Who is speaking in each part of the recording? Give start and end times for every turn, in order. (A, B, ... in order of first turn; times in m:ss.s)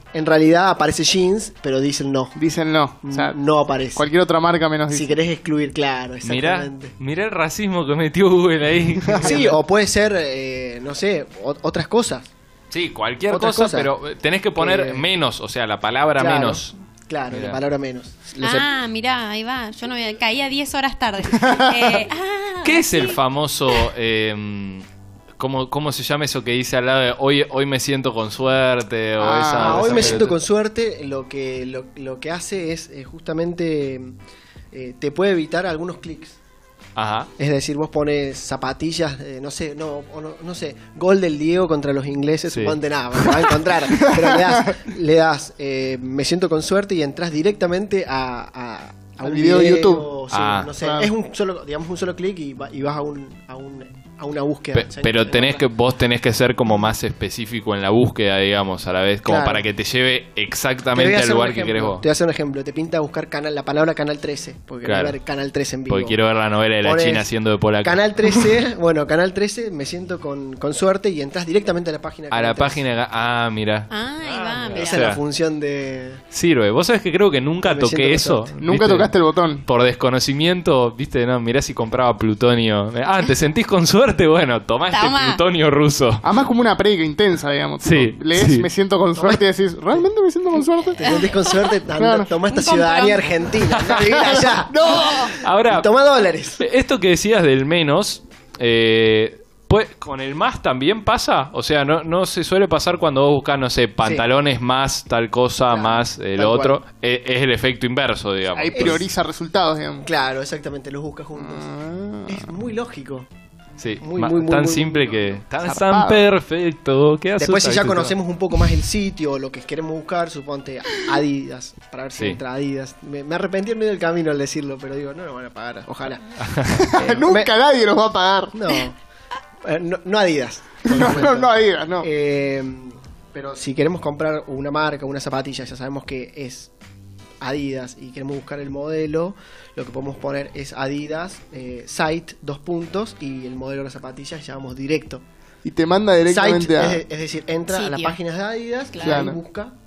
0:00.1-0:02.3 A
0:02.4-0:03.4 B
0:03.0-0:04.0 A
0:04.0-0:05.2 B
0:04.9-0:06.9 A
0:06.2-0:09.6 C
0:09.0-0:09.4 B
0:09.2-0:12.3 A
0:12.7-0:16.7 C
0:13.3-0:13.9 A
0:14.6-0:15.1 A
0:16.2-0:18.7 A
0:17.3-0:17.6 C
0:18.4-0:23.2 D
0:21.4-0:22.0 B
0:22.6-0:24.8 C
0:25.4-0:30.4 C
0:29.2-0:30.2 B
0:29.6-0:34.1 A
0:34.7-0:36.4 A
0:37.0-0:37.3 C
0:37.4-0:55.6 A
0:42.5-0:42.8 C
0:43.9-0:44.8 B
0:49.2-0:50.1 B
0:50.3-0:50.7 C
0:50.8-0:51.1 B
0:54.7-1:02.0 C
0:59.2-0:59.6 A
1:00.9-1:06.2 A
1:04.8-1:05.2 C
1:05.9-1:08.4 C
1:06.8-1:07.3 A
1:07.8-1:12.8 A
1:12.3-1:15.2 C
1:13.9-1:15.1 D
1:14.7-1:16.2 A
1:16.3-1:19.1 C
1:17.6-1:18.5 A
1:18.6-1:19.6 B
1:19.6-1:26.2 C
1:24.9-1:25.4 D
1:26.2-1:31.3 B
1:27.8-1:28.7 C
1:29.2-1:29.4 A
1:30.9-1:36.6 A
1:31.0-1:31.7 D
1:32.0-1:32.3 B
1:32.5-1:33.5 D
1:33.8-1:34.2 C
1:33.9-1:35.3 B
1:34.9-1:35.2 D
1:34.9-1:35.9 C
1:36.6-1:49.0 C
1:45.7-1:46.8 A
1:48.5-1:50.0 B
1:48.7-1:49.0 A
1:50.0-1:51.7 A
1:51.4-1:52.5 B
1:52.2-1:53.3 A
1:53.8-1:58.2 C
1:54.0-1:55.4 A
1:55.6-1:56.2 B
1:57.4-2:07.5 A
2:06.4-2:06.9 C
2:06.7-2:08.5 B
2:08.5-2:09.0 A
2:09.6-2:16.7 A
2:10.8-2:12.1 B
2:17.4-2:25.2 A
2:25.6-2:27.0 B
2:26.3-2:29.7 A
2:27.7-2:28.2 D
2:28.9-2:29.3 D
2:29.0-2:29.4 B